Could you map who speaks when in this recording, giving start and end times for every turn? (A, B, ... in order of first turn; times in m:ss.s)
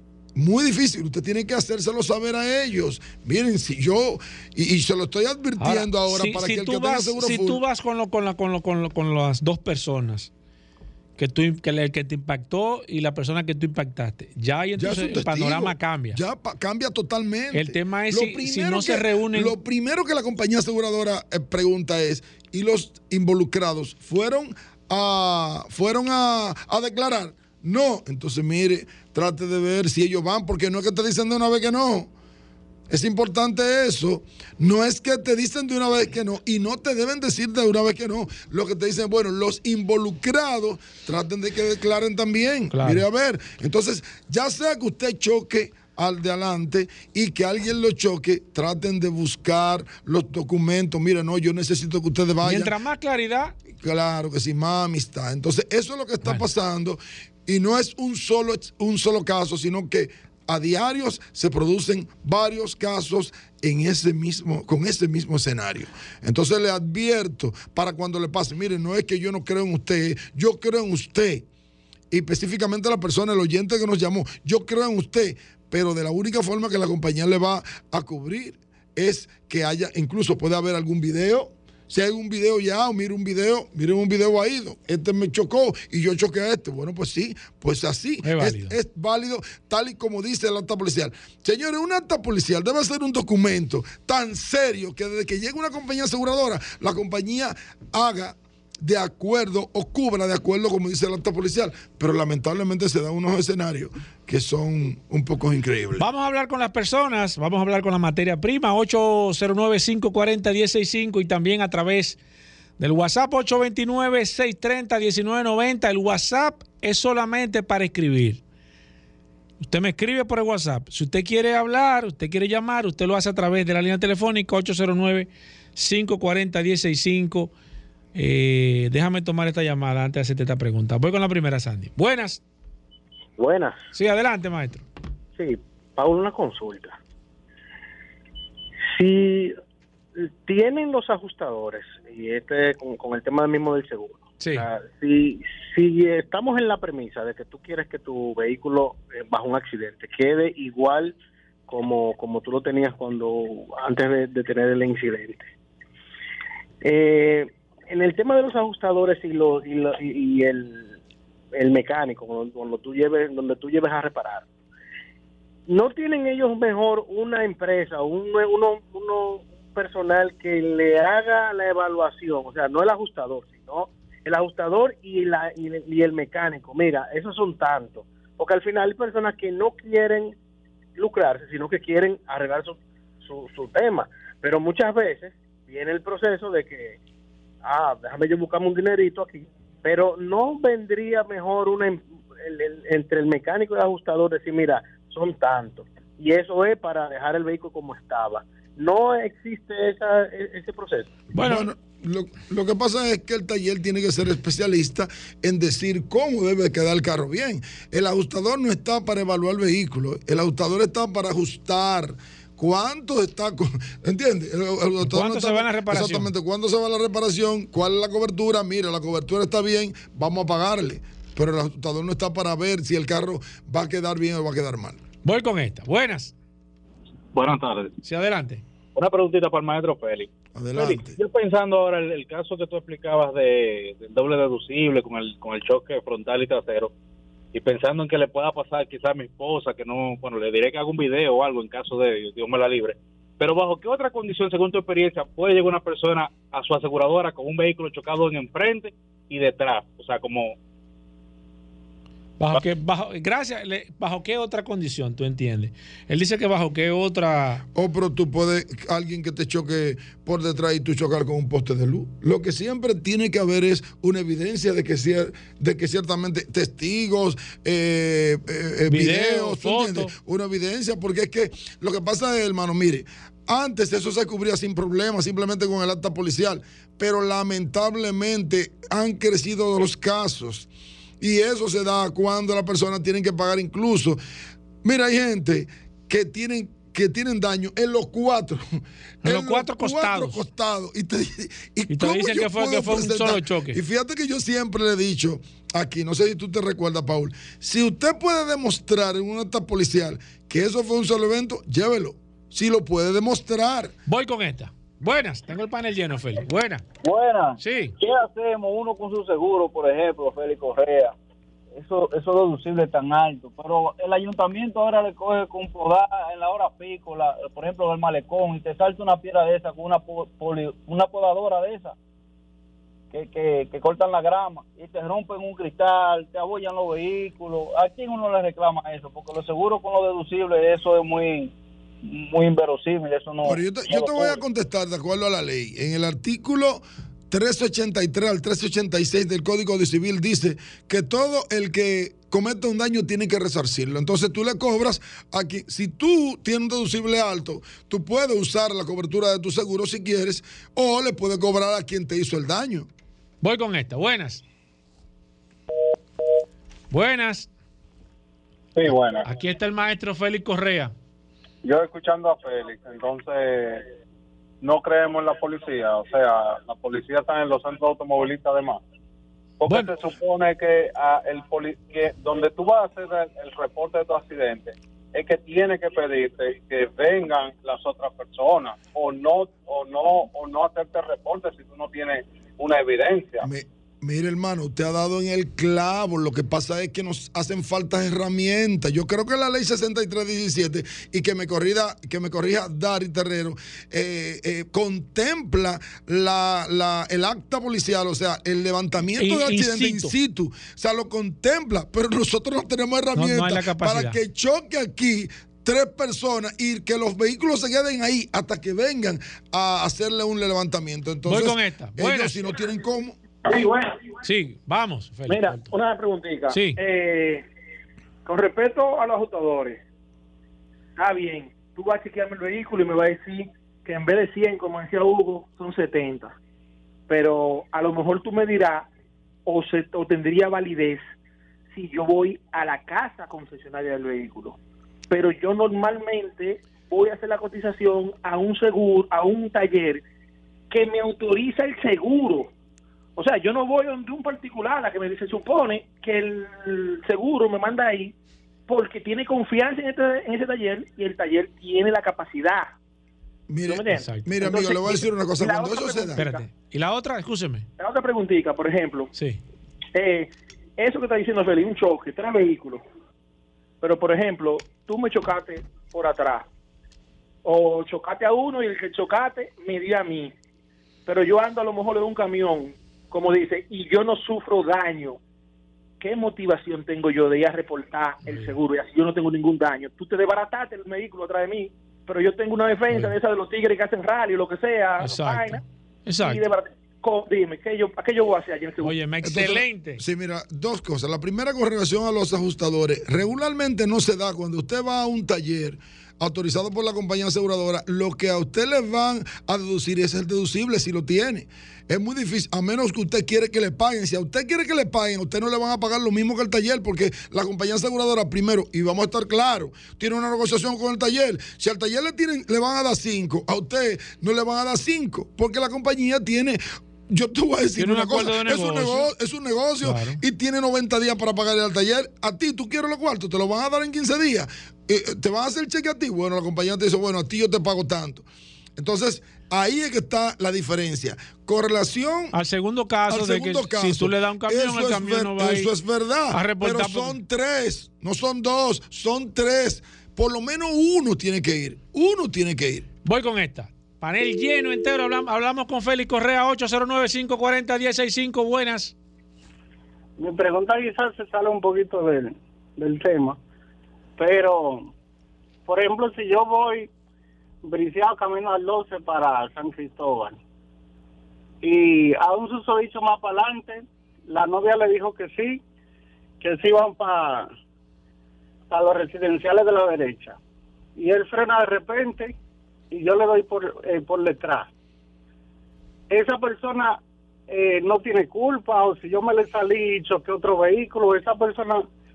0:00.4-0:07.6 A
0:05.6-0:10.3 B
0:11.2-0:16.2 B
0:14.8-0:32.1 A
0:17.5-0:19.5 B
0:32.9-0:52.7 A
0:42.7-0:43.0 B
0:52.4-0:53.6 B
0:53.8-1:11.5 A
1:12.1-1:46.0 A
1:28.2-1:28.8 B
1:46.0-1:52.2 B
1:52.8-1:58.4 B
1:59.6-2:07.5 B
2:08.1-2:12.4 B
2:13.4-2:13.8 C
2:13.9-2:14.8 B
2:15.4-2:17.0 C
2:18.9-2:19.6 C
2:20.2-2:31.2 C
2:24.4-2:24.7 B
2:31.7-2:35.5 C
2:36.8-2:41.0 C
2:41.5-2:44.5 C
2:45.7-3:00.4 C
3:01.0-3:07.0 C
3:07.6-3:21.2 C
3:21.3-3:45.0 A
3:21.4-3:21.7 B
3:35.0-3:36.3 B
3:45.2-3:46.3 B
3:47.3-3:47.9 D
3:48.0-3:48.6 B
3:49.0-3:56.9 D
3:50.6-3:51.2 A
3:57.5-4:10.6 D
4:12.4-4:17.6 B
4:17.8-4:40.7 A
4:28.9-4:30.1 B
4:41.2-4:44.2 A
4:44.8-4:48.6 A
4:49.2-4:50.4 B
4:49.2-5:03.9 A
4:51.9-4:53.8 B
5:04.1-5:06.8 B
5:07.0-5:11.2 E
5:07.6-5:07.9 B
5:11.8-5:22.0 E
5:23.1-5:34.4 E
5:33.4-5:52.9 A
5:53.4-5:54.4 B
5:56.9-5:57.5 B
5:58.8-5:59.2 F
5:58.9-6:00.9 B
6:01.6-6:03.9 F
6:04.6-6:08.8 F
6:09.6-6:23.4 F
6:09.7-6:09.9 B
6:23.4-6:53.2 A
6:39.2-6:40.1 B
6:43.2-6:44.2 B
6:51.3-6:52.4 B
6:53.4-6:54.0 G
6:54.2-6:55.7 B
6:55.3-6:57.4 G
6:56.5-6:56.8 B
6:58.2-6:59.8 G
7:01.0-7:06.4 G
7:07.1-7:08.9 G
7:09.5-7:11.0 G
7:11.7-7:14.6 G
7:15.1-7:20.0 G
7:20.7-7:22.5 G
7:23.2-7:28.2 G
7:28.7-7:32.7 G
7:33.5-7:36.2 A
7:33.6-7:36.4 G
7:33.9-7:34.4 B
7:36.2-7:37.7 B
7:37.8-7:39.1 G
7:39.2-7:39.4 B
7:39.9-7:42.8 G
7:43.8-7:46.5 G
7:47.4-7:50.3 G
7:51.1-7:55.2 G
7:56.0-8:05.6 G
7:58.3-7:58.6 B
8:02.9-8:03.2 B
8:05.0-8:06.5 B
8:06.2-8:09.0 G
8:08.8-8:10.0 B
8:09.2-8:48.3 A
8:37.8-8:39.1 B
8:39.8-8:40.2 B
8:48.8-8:52.4 A
8:52.3-8:55.7 B
8:53.1-9:02.9 A
8:56.3-8:57.2 B
9:03.0-9:08.9 B
9:10.2-9:13.4 H
9:14.2-9:14.9 H
9:15.7-9:16.9 H
9:17.6-9:20.4 H
9:21.6-9:25.6 H
9:26.4-9:27.5 H
9:28.7-9:30.4 H
9:31.0-9:32.4 H
9:32.9-9:34.7 H
9:36.1-9:41.9 H